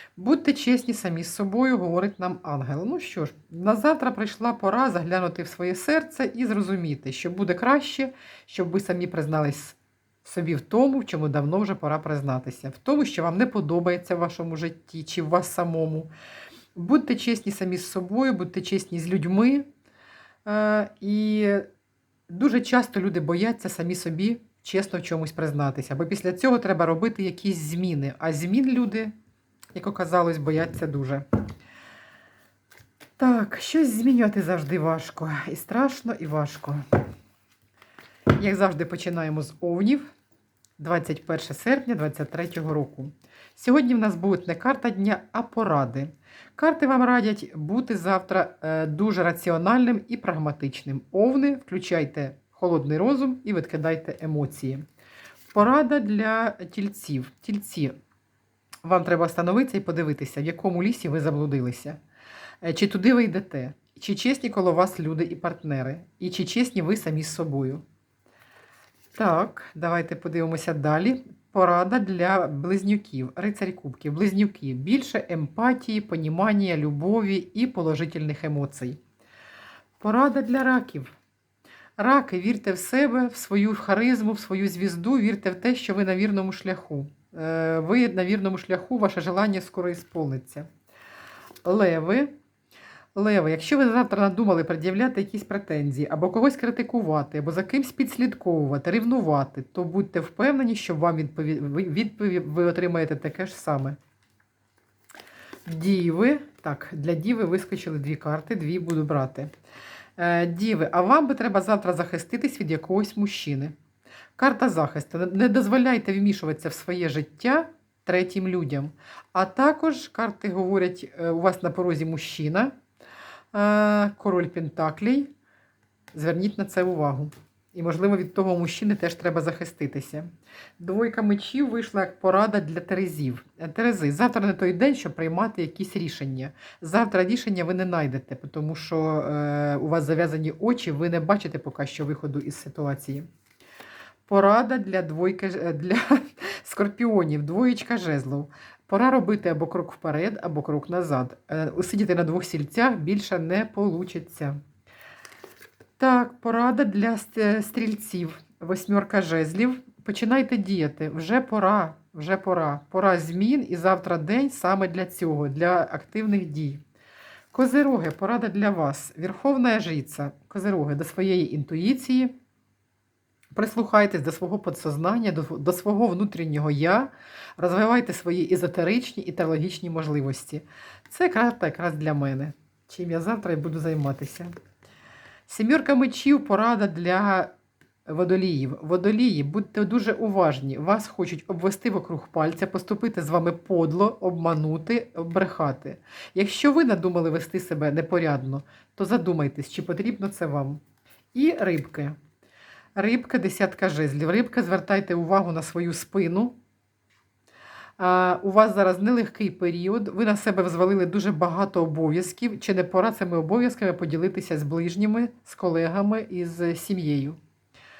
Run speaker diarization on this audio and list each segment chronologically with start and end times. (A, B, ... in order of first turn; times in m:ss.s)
0:00.2-0:16.1 A
0:16.7-0:19.7 A
0:20.4-0:21.7 A
0:22.3-0:29.1 A
0:29.7-0:31.2 A
0:33.2-0:36.8 A
0:38.4-0:40.1 A
0:40.8-0:54.8 A
0:55.5-0:57.9 A
0:58.8-1:02.0 A
1:02.6-1:07.8 A
1:09.1-1:19.0 A
1:20.0-1:21.1 A
1:22.0-1:30.7 A
1:31.6-1:32.3 A
1:33.1-1:44.0 A
1:45.6-1:49.5 A
1:50.2-1:53.7 A
1:54.4-2:02.7 A
2:03.5-2:05.3 A
2:06.1-2:23.3 A
2:24.3-2:34.6 A
2:36.0-2:46.8 A
2:47.5-2:52.3 A
2:53.5-3:04.5 A
3:05.5-3:07.5 A
3:08.0-3:20.8 A
3:21.3-3:22.2 A
3:22.9-3:26.6 A
3:28.0-3:37.4 A